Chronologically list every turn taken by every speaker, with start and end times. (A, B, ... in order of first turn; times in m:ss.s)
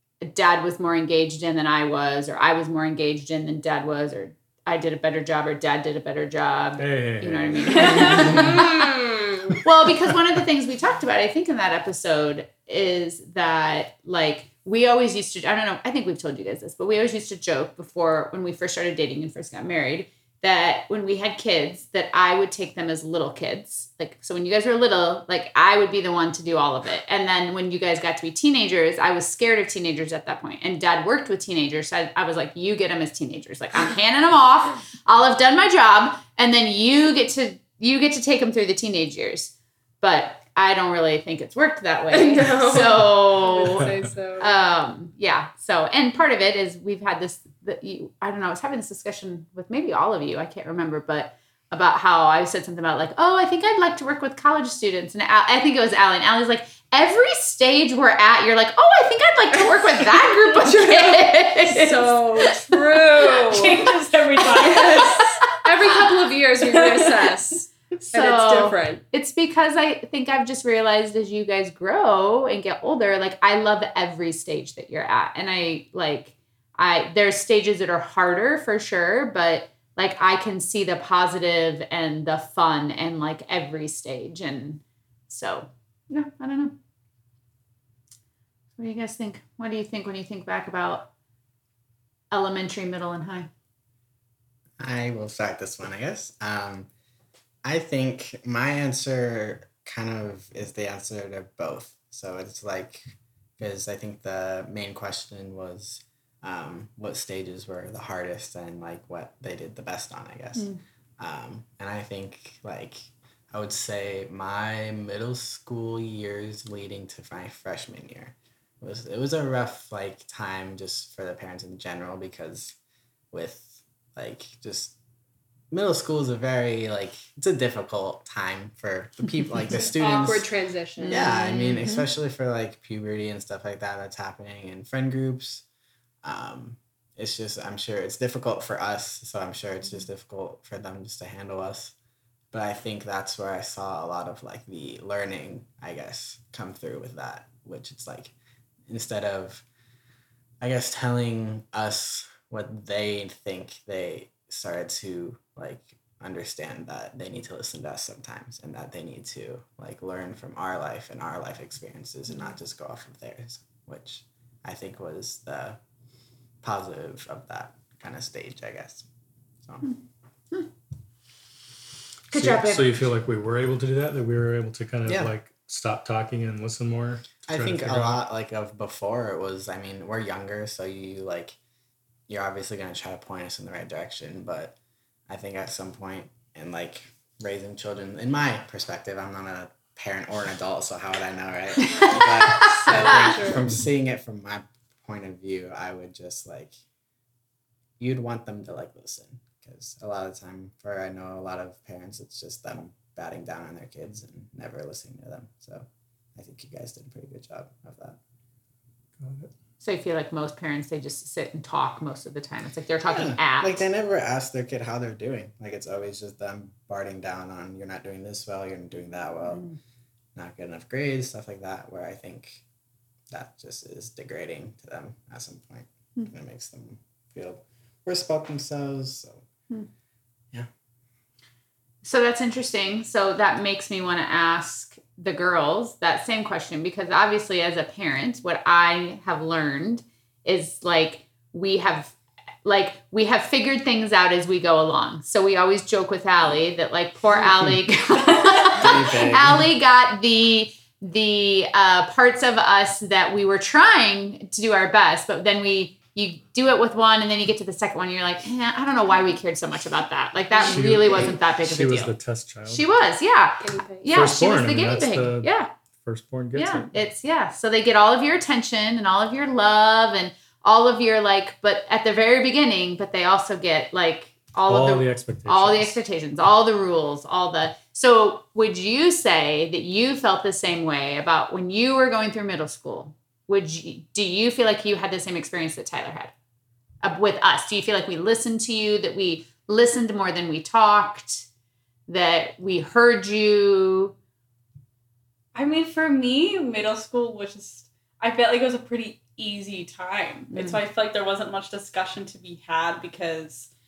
0:00.2-0:08.9 A
0:06.8-0:08.7 B
0:07.7-0:08.4 C
0:08.4-0:09.6 D
0:09.6-1:03.1 A
0:42.1-0:44.5 D
1:00.5-1:03.9 D
1:03.4-1:05.3 C
1:04.6-1:09.0 D
1:04.7-1:05.4 A
1:06.7-1:07.1 C
1:08.1-1:26.8 A
1:28.8-1:31.1 A
1:32.3-1:33.5 A
1:34.8-1:36.9 E
1:37.6-2:02.8 E
2:03.3-2:05.0 E
2:05.7-2:10.5 E
2:09.9-2:11.3 D
2:11.0-2:12.1 A
2:11.0-2:15.6 E
2:16.2-2:21.9 E
2:22.5-2:28.3 E
2:28.9-2:29.6 E
2:30.6-2:45.8 E
2:46.6-2:49.1 E
2:52.3-2:52.9 A
2:52.3-2:58.2 B
2:55.1-2:55.3 E
2:57.5-3:01.6 E
3:02.3-3:04.8 E
3:05.3-3:16.7 E
3:11.9-3:13.7 D
3:12.5-3:12.9 A
3:18.0-3:28.2 E
3:29.2-3:29.5 B
3:29.8-3:33.8 A
3:33.1-3:39.6 E
3:39.5-3:39.8 A
3:40.4-3:42.6 E
3:43.3-3:49.5 E
3:52.0-4:22.1 A
4:08.4-4:08.8 C
4:08.8-4:09.7 E
4:20.6-4:22.8 B
4:22.7-4:25.7 A
4:23.6-4:24.3 D
4:24.1-4:26.9 B
4:26.6-4:46.3 A
4:34.7-4:36.0 B
4:47.0-4:51.5 A
4:52.1-4:54.2 A
4:55.5-5:03.7 C